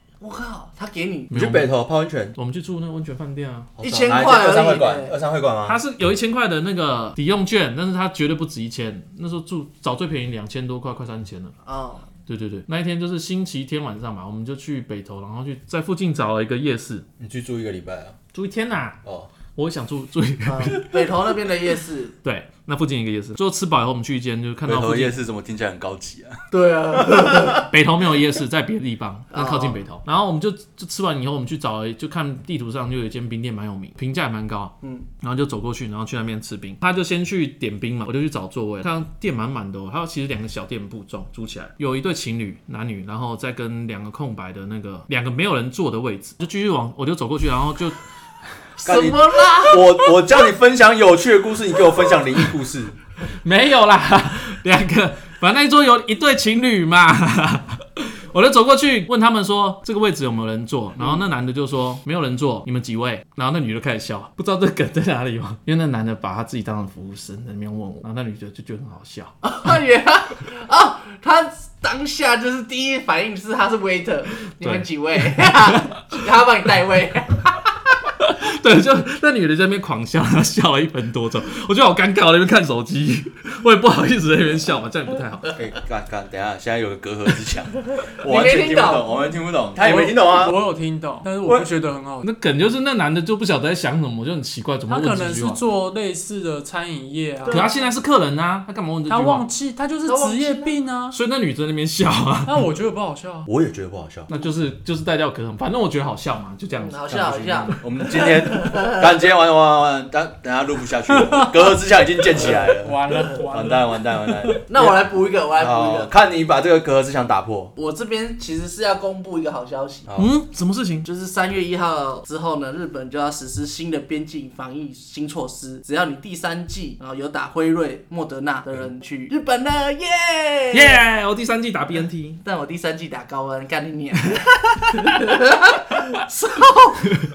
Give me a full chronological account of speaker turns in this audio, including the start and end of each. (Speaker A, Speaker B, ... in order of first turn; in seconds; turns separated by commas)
Speaker A: 0.2-1.3, Speaker B: 1.3-1.7, Speaker C: 1.3-2.4, Speaker B: 2.4-3.7, Speaker C: 3.8-5.8, Speaker A: 3.8-5.2, Speaker B: 5.7-11.5, Speaker A: 11.6-12.1, Speaker B: 12.3-17.1, Speaker C: 17.2-18.2, Speaker B: 18.3-19.0, Speaker C: 19.1-19.3, Speaker B: 19.6-21.2, Speaker A: 20.5-22.1, Speaker B: 22.2-25.1, Speaker C: 24.7-26.4, Speaker A: 26.5-27.7, Speaker C: 26.9-27.6, Speaker B: 27.7-48.0, Speaker A: 29.3-29.8, Speaker A: 48.8-49.8, Speaker C: 48.9-53.0, Speaker B: 53.3-69.3, Speaker A: 69.4-77.6, Speaker B: 74.4-76.2, Speaker B: 78.2-85.5, Speaker C: 85.5-90.6, Speaker A: 88.2-89.2, Speaker D: 89.8-92.3, Speaker B: 92.2-95.6, Speaker D: 94.9-97.7, Speaker A: 97.4-97.8, Speaker B: 97.5-99.5, Speaker D: 99.1-101.2, Speaker A: 100.0-100.8, Speaker B: 101.1-102.7, Speaker D: 102.5-103.5, Speaker C: 103.5-104.3, Speaker B: 104.3-107.1, Speaker A: 106.8-109.1, Speaker C: 107.1-113.0, Speaker D: 112.3-114.6, Speaker A: 113.1-113.4, Speaker C: 113.5-115.0, Speaker A: 114.7-116.1, Speaker C: 115.5-117.7, Speaker A: 117.8-120.1, Speaker C: 120.1-120.3, Speaker B: 120.2-121.1, Speaker A: 121.0-131.0, Speaker B: 130.7-132.4, Speaker A: 132.4-137.1